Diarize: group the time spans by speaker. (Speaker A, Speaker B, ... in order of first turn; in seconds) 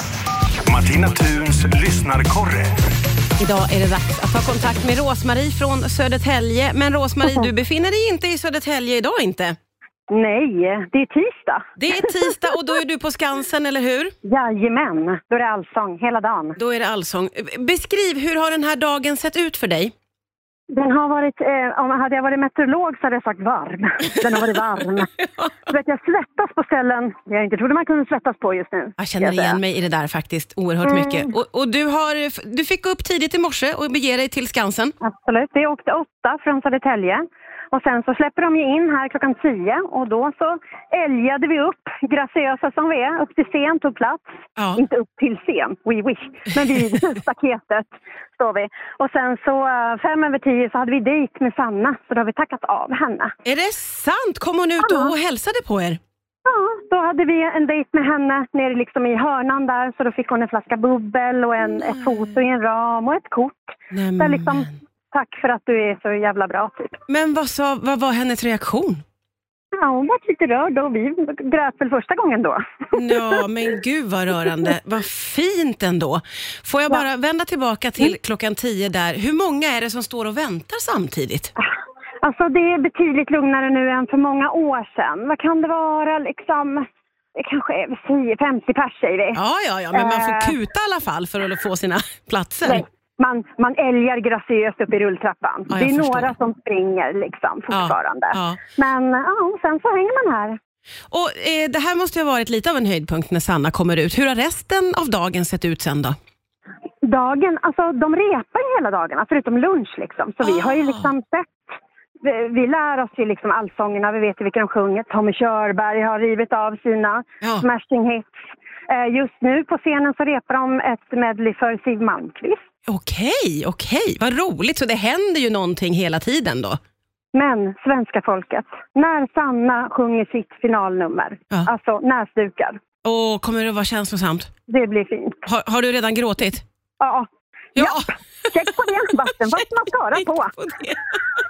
Speaker A: 0.7-2.7
Speaker B: 3.4-9.6, 11.8-14.1, 16.6-19.9, 29.0-35.0, 44.6-44.8, 53.5-56.0, 61.6-62.4, 63.9-64.8, 67.1-69.0, 72.9-81.5, 89.3-92.8, 95.7-96.3, 97.7-98.6, 101.1-106.2, 110.4-111.1, 122.9-126.8, 133.0-134.5, 135.5-136.6, 137.8-138.5, 140.6-141.2
Speaker C: 10.1-12.3, 14.2-16.6, 20.7-25.1, 25.7-29.6, 30.9-31.3, 35.0-53.3, 54.8-55.1, 56.5-67.0, 69.8-73.4, 82.2-86.8, 87.4-89.4, 89.9-90.6, 92.7-100.6, 107.0-111.6, 112.2-122.6, 127.3-132.8, 134.7-135.5, 137.0-140.6